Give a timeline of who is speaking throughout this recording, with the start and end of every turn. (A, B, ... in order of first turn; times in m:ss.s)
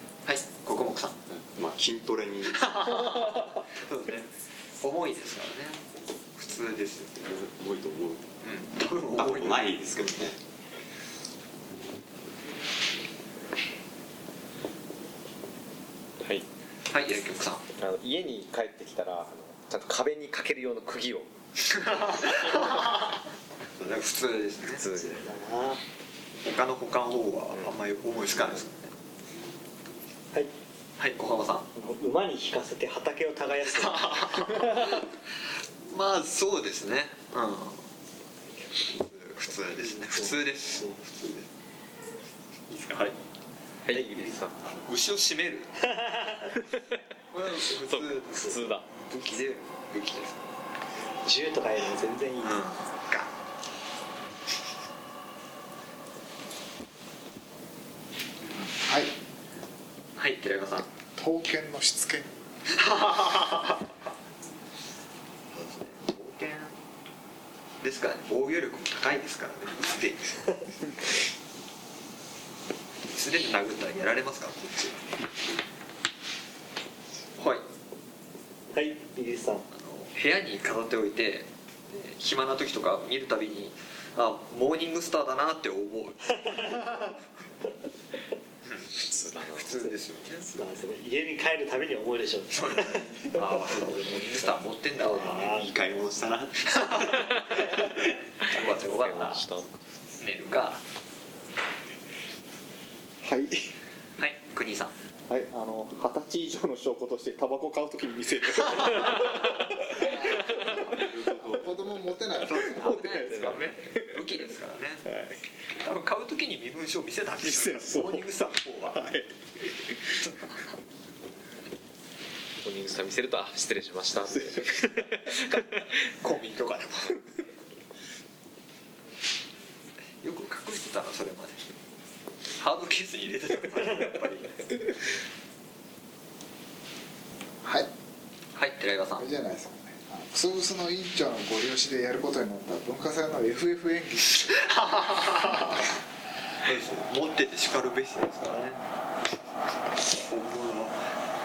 0:00.2-0:01.2 A
0:01.3-0:02.7 B
0:02.5-0:05.8 A
0:06.4-0:07.2 A
0:07.2-0:08.2 B
0:08.4-0:10.3 A
0:09.1-0:10.4 B
0:16.9-0:17.6 A
0:17.8-0:21.3 C
0:21.7-0:23.1 A
0:23.8-0:24.8 A
0:24.8-0:25.2 C
0:25.0-0:25.8 D
0:26.4-0:28.9 A
0:31.0-0:31.7 A
0:31.7-0:34.6 D
0:33.7-0:35.1 A
0:35.9-0:37.9 A
0:38.8-0:41.5 A
0:40.0-0:41.0 D
0:42.7-0:43.2 A
0:43.8-0:44.6 C
0:44.2-0:45.8 A
0:46.0-0:46.5 D
0:46.6-0:47.0 C
0:47.3-0:50.4 A
0:47.8-0:48.9 C
0:51.2-0:52.7 D
0:52.4-0:53.3 A
0:58.5-0:59.1 E
1:00.2-1:00.9 A
1:01.2-1:02.4 E
1:02.8-1:03.6 A
1:05.5-1:06.8 A
1:07.8-1:10.5 A
1:13.0-1:15.1 A
1:17.4-1:17.6 A
1:18.7-1:19.6 D
1:19.7-1:27.2 A
1:26.5-1:26.8 D
1:28.6-1:30.5 A
1:29.0-1:29.7 C
1:30.5-1:33.3 D
1:32.5-1:35.5 A
1:35.0-1:35.7 D
1:35.3-1:37.3 B
1:36.7-1:37.9 A
1:37.2-1:37.6 C
1:38.4-1:39.4 A
1:38.5-1:39.7 C
1:40.2-1:40.8 A
1:43.2-1:43.7 F
1:44.2-1:44.9 A
1:45.3-1:54.4 F
1:50.0-1:53.1 E
1:50.9-1:51.8 B
1:52.4-1:55.1 A
1:55.1-1:55.4 F
1:55.7-1:59.1 A
1:57.4-1:58.3 F
1:58.9-2:00.2 F
2:02.6-2:05.9 C
2:05.4-2:07.2 A
2:10.2-2:11.6 A
2:12.6-2:14.6 A
2:17.6-2:17.9 E
2:18.5-2:19.2 A
2:19.2-2:24.6 E
2:24.6-2:25.8 A
2:26.6-2:28.8 A
2:30.0-2:31.0 A